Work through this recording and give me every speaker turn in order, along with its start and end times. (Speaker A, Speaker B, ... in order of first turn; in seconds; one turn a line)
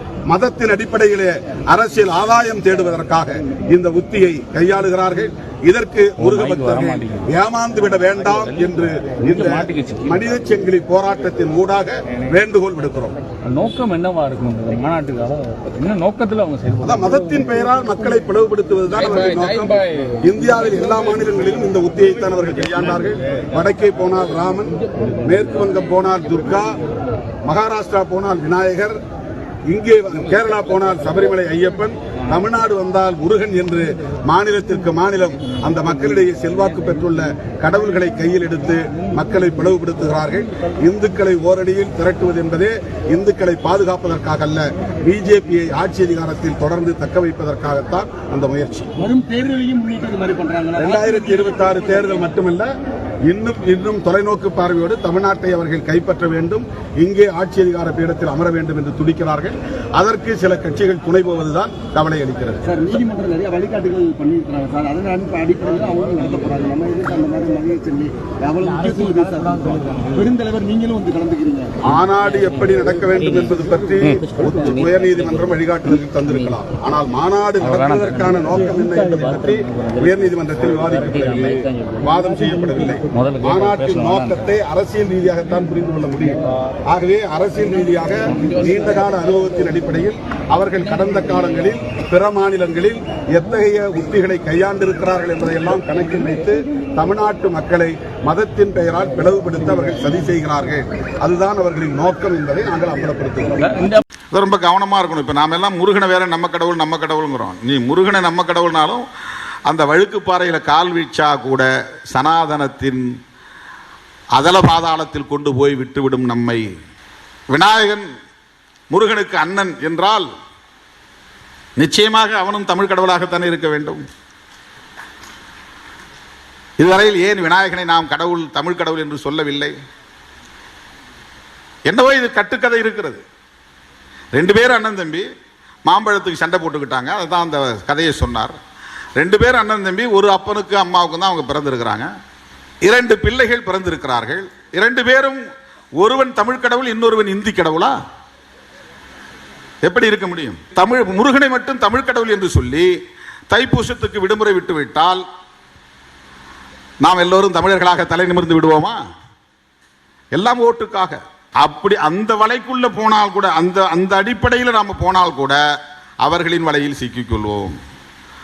Speaker A: 0.3-13.1
Speaker B: 6.2-7.2
Speaker B: 9.3-10.1
Speaker B: 13.4-17.1
Speaker A: 16.8-26.8
Speaker A: 27.5-29.0
Speaker A: 29.7-48.9
Speaker C: 49.0-52.2
Speaker A: 50.8-52.7
Speaker A: 53.3-62.6
Speaker C: 62.6-71.7
Speaker A: 71.8-103.9
Speaker B: 77.6-78.5
Speaker B: 83.1-84.4
Speaker B: 103.7-104.0
Speaker D: 104.3-109.0
Speaker D: 109.7-113.0
Speaker D: 114.4-116.6
Speaker D: 117.5-118.0
Speaker D: 118.9-120.3
Speaker D: 121.8-124.0
Speaker D: 126.8-129.7
Speaker D: 131.9-133.2
Speaker D: 134.4-135.3
Speaker D: 135.9-138.5
Speaker D: 139.2-142.1
Speaker D: 142.8-145.4
Speaker D: 146.0-147.9
Speaker D: 149.8-152.9
Speaker D: 153.5-155.2
Speaker D: 157.0-159.0
Speaker D: 160.4-165.6
Speaker D: 166.2-167.7